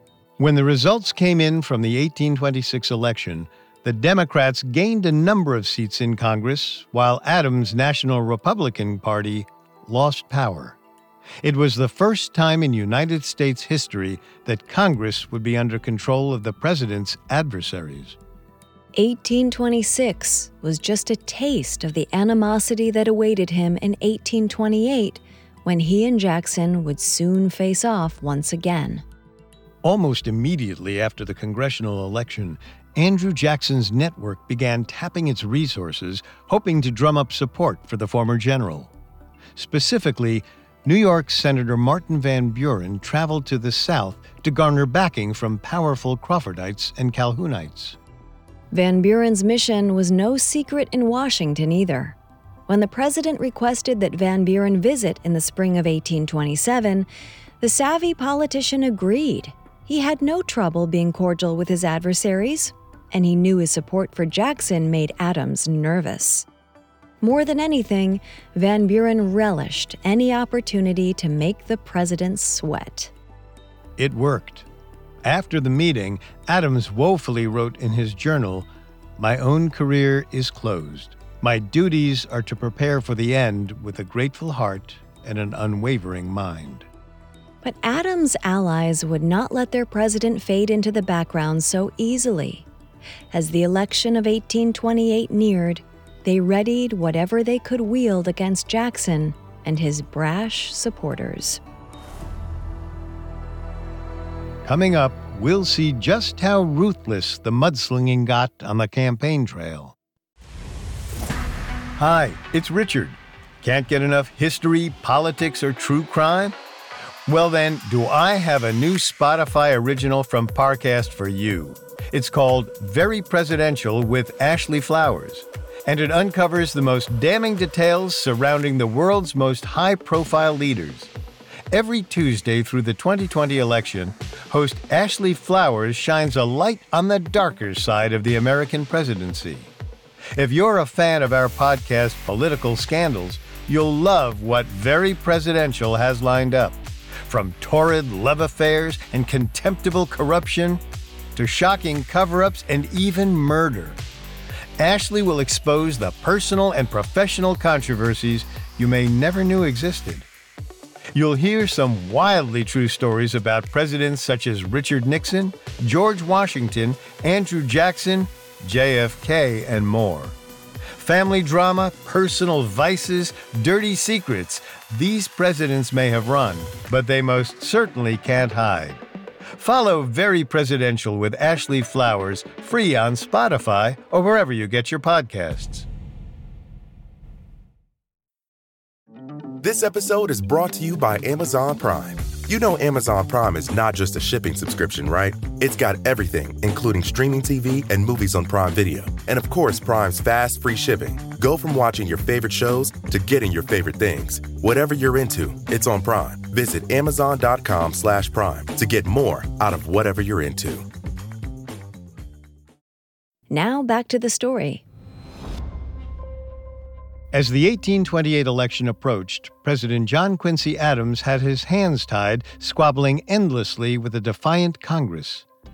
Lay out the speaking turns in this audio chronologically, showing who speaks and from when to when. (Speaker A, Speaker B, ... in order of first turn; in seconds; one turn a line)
Speaker A: 0.4-10.8
Speaker A: 11.4-18.2
Speaker B: 18.9-29.0
Speaker A: 29.8-38.9
Speaker A: 39.6-48.0
Speaker B: 48.7-52.2
Speaker B: 52.7-57.1
Speaker B: 57.6-66.5
Speaker B: 67.2-73.1
Speaker A: 74.0-74.7
Speaker A: 75.2-78.7
Speaker A: 79.2-86.9
Speaker B: 87.6-92.7
Speaker B: 93.3-101.6
Speaker A: 104.7-110.0
Speaker A: 112.0-116.5
Speaker A: 117.3-131.1
Speaker A: 131.7-139.7
Speaker A: 140.3-150.8
Speaker A: 151.4-154.0
Speaker A: 154.8-160.3
Speaker A: 161.1-170.4
Speaker A: 170.9-179.0
Speaker A: 179.6-185.9
Speaker C: 189.6-210.9
Speaker B: 213.5-214.8
Speaker A: 217.3-225.4